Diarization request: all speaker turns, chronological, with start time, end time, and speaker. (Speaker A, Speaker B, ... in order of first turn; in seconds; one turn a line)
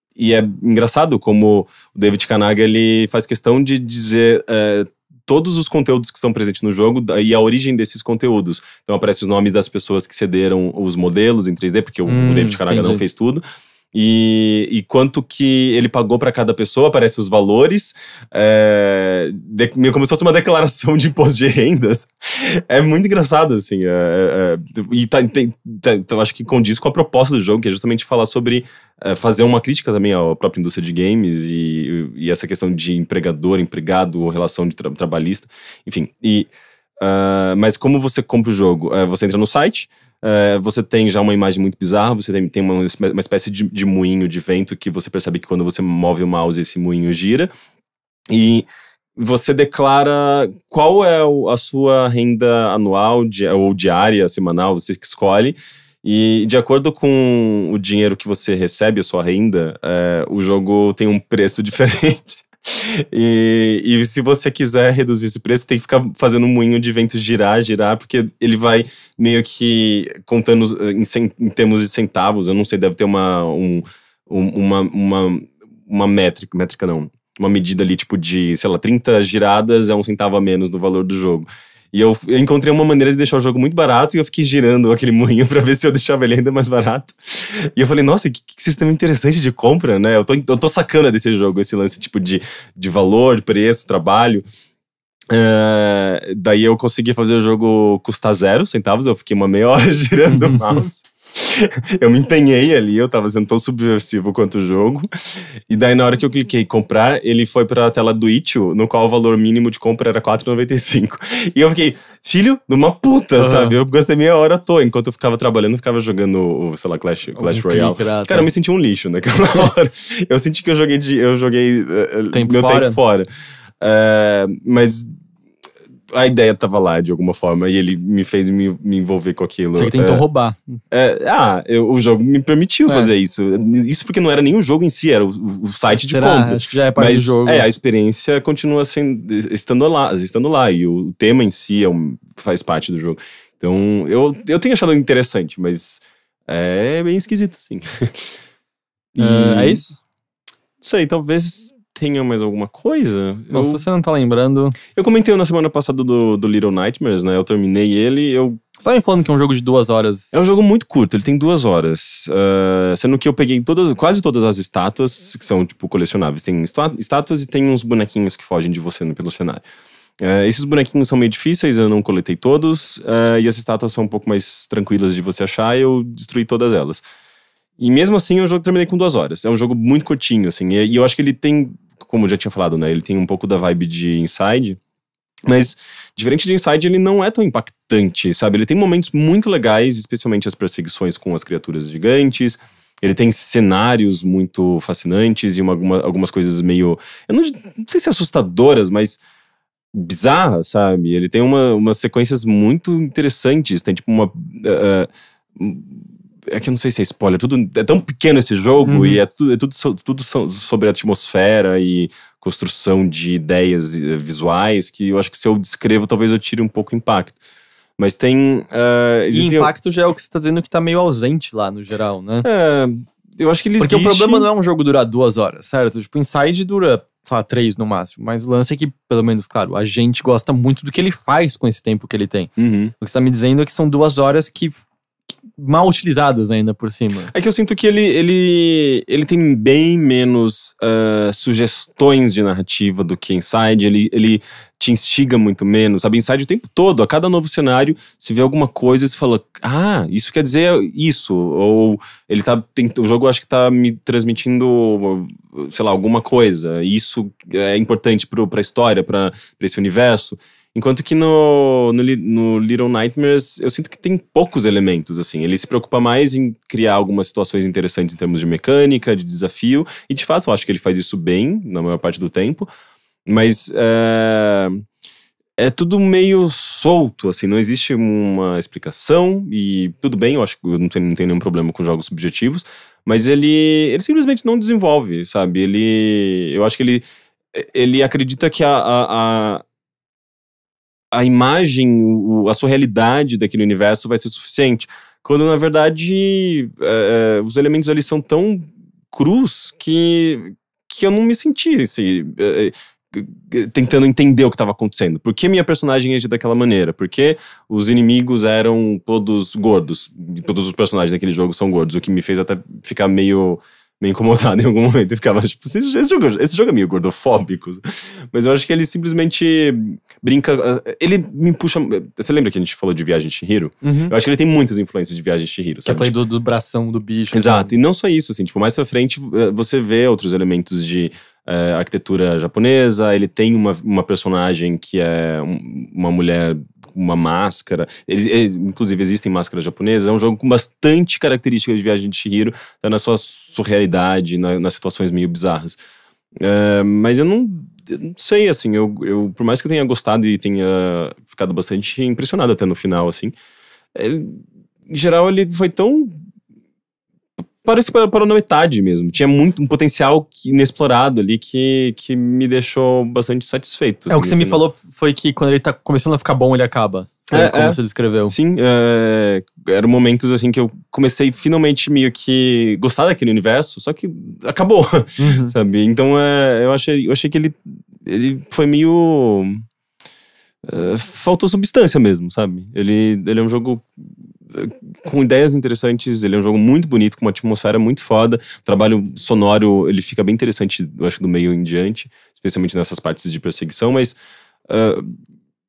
Speaker A: 0.1-13.4
Speaker B: 12.1-13.0
Speaker A: 13.9-47.5
Speaker A: 48.3-94.4
Speaker A: 95.3-123.3
Speaker B: 100.3-100.8
Speaker B: 113.4-113.7
Speaker B: 117.3-118.5
Speaker B: 122.3-123.0
Speaker A: 123.8-125.1
Speaker A: 126.1-130.2
Speaker B: 129.7-130.6
Speaker A: 130.9-148.3
Speaker B: 135.9-137.7
Speaker A: 149.1-149.8
Speaker B: 149.2-150.0
Speaker A: 150.8-153.8
Speaker B: 153.5-154.8
Speaker A: 154.9-158.6
Speaker B: 158.8-160.3
Speaker A: 160.3-169.6
Speaker A: 170.2-177.0
Speaker A: 177.8-184.8
Speaker A: 185.4-199.2
Speaker A: 199.9-217.4
Speaker B: 208.8-209.2
Speaker A: 218.0-219.7
Speaker B: 219.3-222.4
Speaker A: 222.4-224.5
Speaker B: 223.8-234.8
Speaker A: 232.6-232.9
Speaker B: 235.6-237.3
Speaker A: 237.3-272.7
Speaker A: 273.2-274.8
Speaker A: 275.6-289.6
Speaker A: 291.1-326.1
Speaker B: 323.8-324.1
Speaker B: 325.8-327.7
Speaker A: 327.3-345.8
Speaker A: 346.4-353.3
Speaker A: 353.9-356.2
Speaker A: 357.6-364.6
Speaker B: 364.1-368.3
Speaker A: 367.3-367.8
Speaker A: 368.3-379.6
Speaker B: 375.2-375.5
Speaker A: 380.6-394.2
Speaker A: 394.7-395.1